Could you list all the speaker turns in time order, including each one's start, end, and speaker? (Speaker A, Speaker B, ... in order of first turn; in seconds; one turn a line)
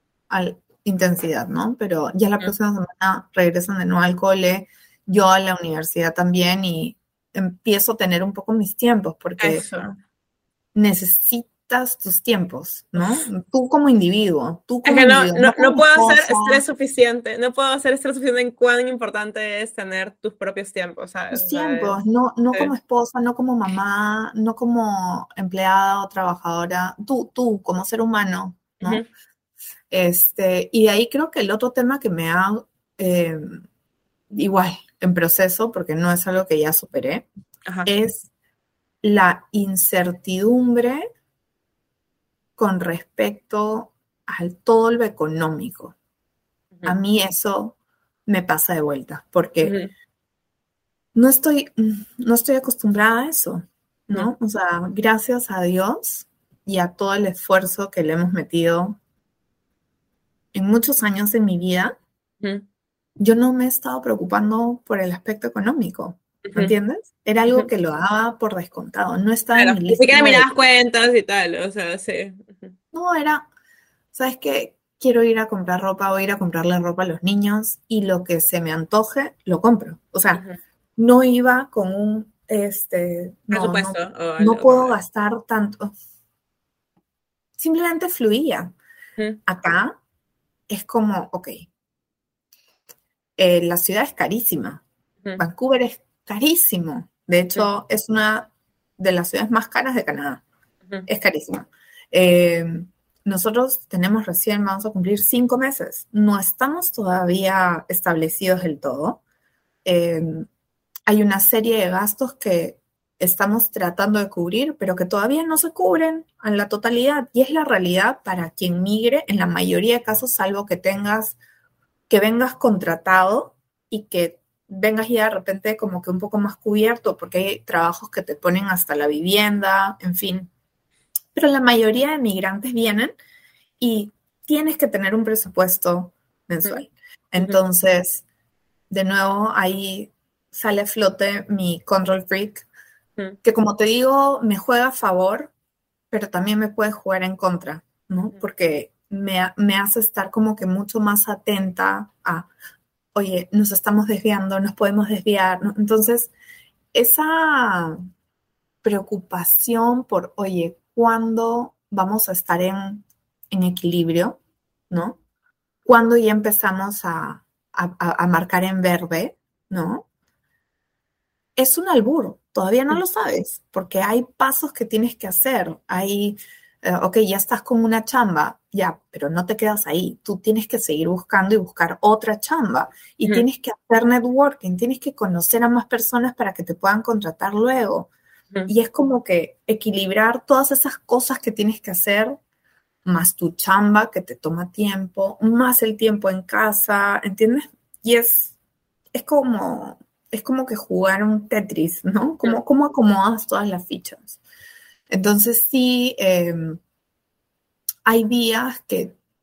Speaker A: 0.3-9.6
Speaker B: 9.4-10.0
Speaker A: 10.8-16.6
Speaker B: 14.8-22.0
Speaker A: 21.3-29.0
Speaker B: 28.8-29.1
Speaker A: 29.9-33.6
Speaker A: 34.3-37.3
Speaker A: 37.9-38.3
Speaker A: 39.0-41.0
Speaker A: 42.6-46.0
Speaker A: 46.9-49.8
Speaker B: 49.6-49.9
Speaker A: 51.1-59.0
Speaker A: 60.5-62.0
Speaker A: 63.2-70.5
Speaker B: 66.5-66.7
Speaker B: 69.6-72.8
Speaker A: 72.9-73.5
Speaker A: 74.1-80.4
Speaker A: 81.0-85.9
Speaker B: 83.5-85.0
Speaker A: 87.6-88.8
Speaker A: 89.5-90.0
Speaker A: 90.7-91.7
Speaker A: 93.4-94.8
Speaker A: 95.4-100.4
Speaker A: 101.1-109.2
Speaker A: 109.8-110.5
Speaker A: 111.1-121.4
Speaker A: 122.1-130.5
Speaker A: 131.3-133.2
Speaker A: 133.8-138.2
Speaker A: 138.9-142.7
Speaker A: 143.4-145.5
Speaker A: 146.1-152.5
Speaker A: 153.1-156.3
Speaker A: 156.9-158.0
Speaker A: 158.8-164.4
Speaker A: 164.9-165.2
Speaker A: 165.8-170.1
Speaker A: 171.6-188.1
Speaker A: 188.7-192.4
Speaker A: 193.1-198.6
Speaker A: 199.1-204.4
Speaker A: 205.1-206.8
Speaker A: 208.1-209.2